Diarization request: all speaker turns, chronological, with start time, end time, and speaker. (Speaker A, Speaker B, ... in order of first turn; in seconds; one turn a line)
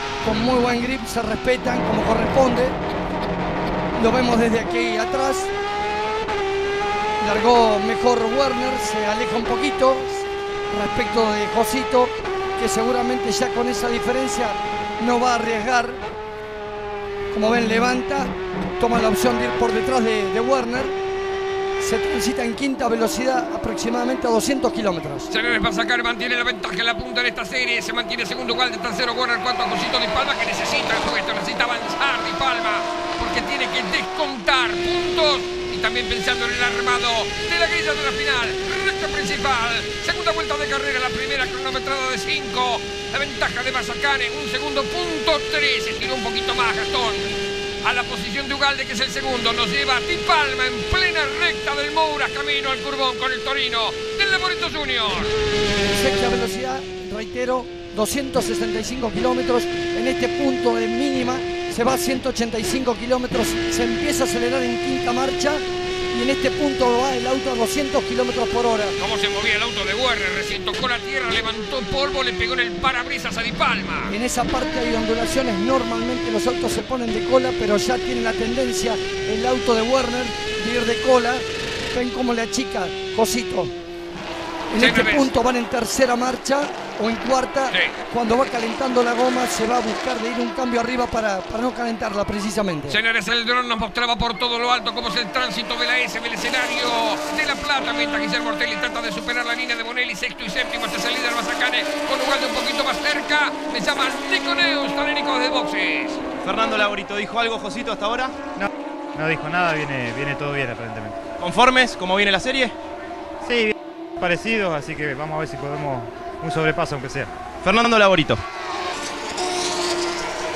Speaker A: 0.2-2.8
Speaker A: 4.0-5.5
Speaker A: 7.2-16.0
Speaker A: 17.3-20.9
Speaker A: 21.8-25.3
Speaker B: 25.3-47.3
Speaker B: 47.8-55.3
Speaker A: 55.9-69.0
Speaker B: 69.0-74.2
Speaker A: 74.1-83.7
Speaker A: 84.7-93.0
Speaker B: 84.8-85.3
Speaker B: 87.7-88.0
Speaker B: 92.9-106.2
Speaker C: 106.4-108.5
Speaker D: 108.5-111.2
Speaker C: 111.4-112.8
Speaker D: 113.4-117.3
Speaker C: 117.6-118.4